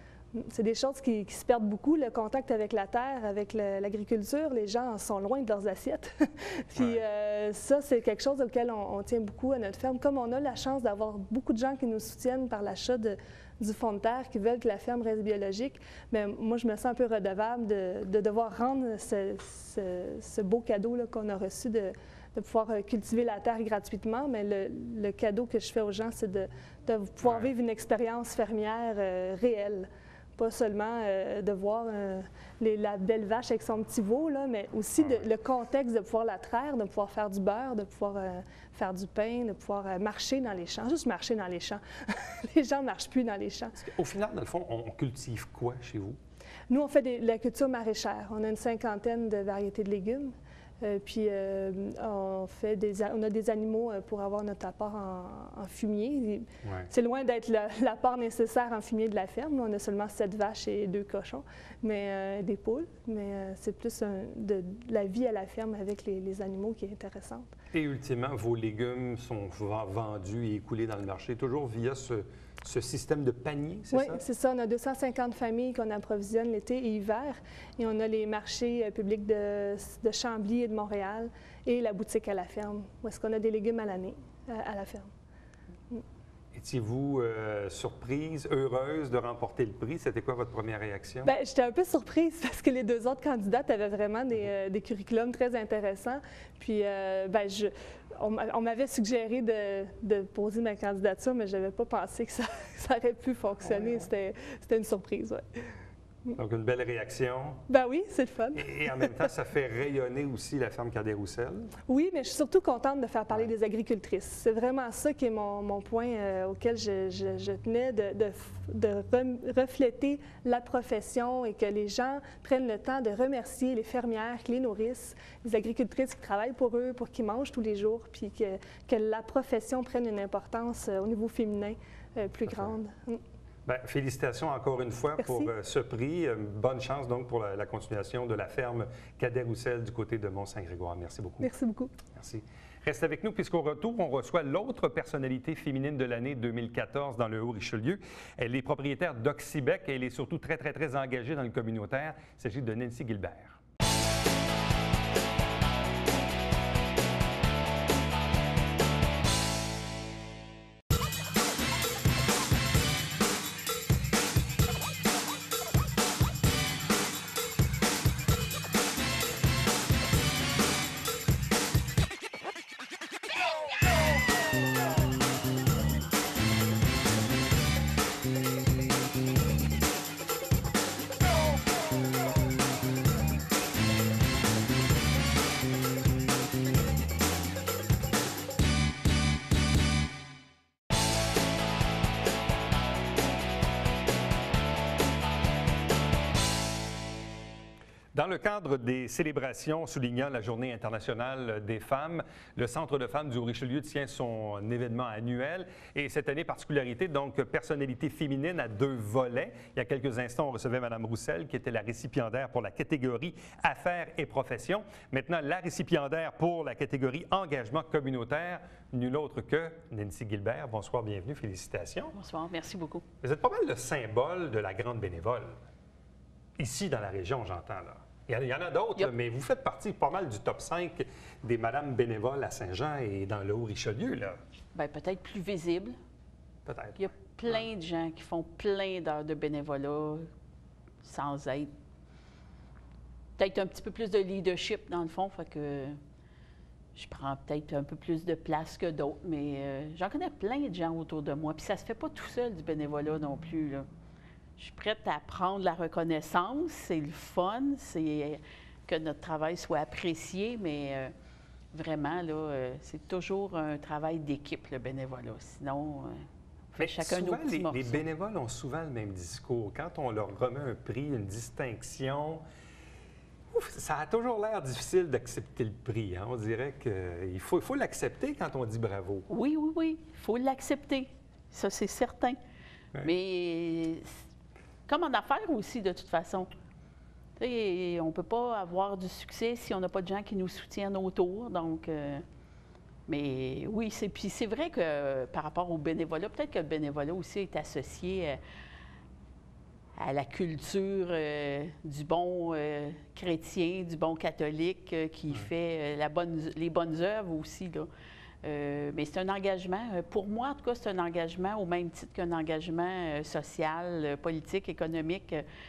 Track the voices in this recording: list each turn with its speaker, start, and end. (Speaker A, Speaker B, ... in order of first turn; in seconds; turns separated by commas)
Speaker A: 0.3-43.8, Speaker B: 6.8-7.0, Speaker B: 27.2-27.5, Speaker B: 35.0-35.2, Speaker B: 43.8-46.2, Speaker A: 46.7-67.5, Speaker B: 56.6-56.9, Speaker B: 67.7-74.2, Speaker A: 73.9-85.1, Speaker B: 86.5-91.3, Speaker A: 91.2-105.7, Speaker B: 103.6-104.1, Speaker B: 106.3-107.6, Speaker A: 107.7-109.2, Speaker B: 108.5-111.7, Speaker A: 111.9-133.2, Speaker B: 132.5-132.7, Speaker B: 133.7-141.5, Speaker A: 135.2-135.5, Speaker A: 141.4-141.9, Speaker B: 142.1-153.6, Speaker B: 198.1-222.1, Speaker C: 222.1-223.0, Speaker B: 223.2-225.6, Speaker B: 226.6-234.4, Speaker C: 234.7-235.9, Speaker B: 236.7-237.7, Speaker C: 237.0-240.3, Speaker C: 241.0-241.7, Speaker C: 243.4-246.0, Speaker C: 246.9-253.8, Speaker C: 254.6-261.1, Speaker C: 261.7-268.0, Speaker B: 266.8-272.4, Speaker B: 273.5-279.3, Speaker C: 279.3-282.4, Speaker C: 283.0-284.2, Speaker C: 284.9-286.5, Speaker C: 287.4-292.2, Speaker C: 293.1-298.4, Speaker C: 300.0-307.9, Speaker C: 308.4-315.4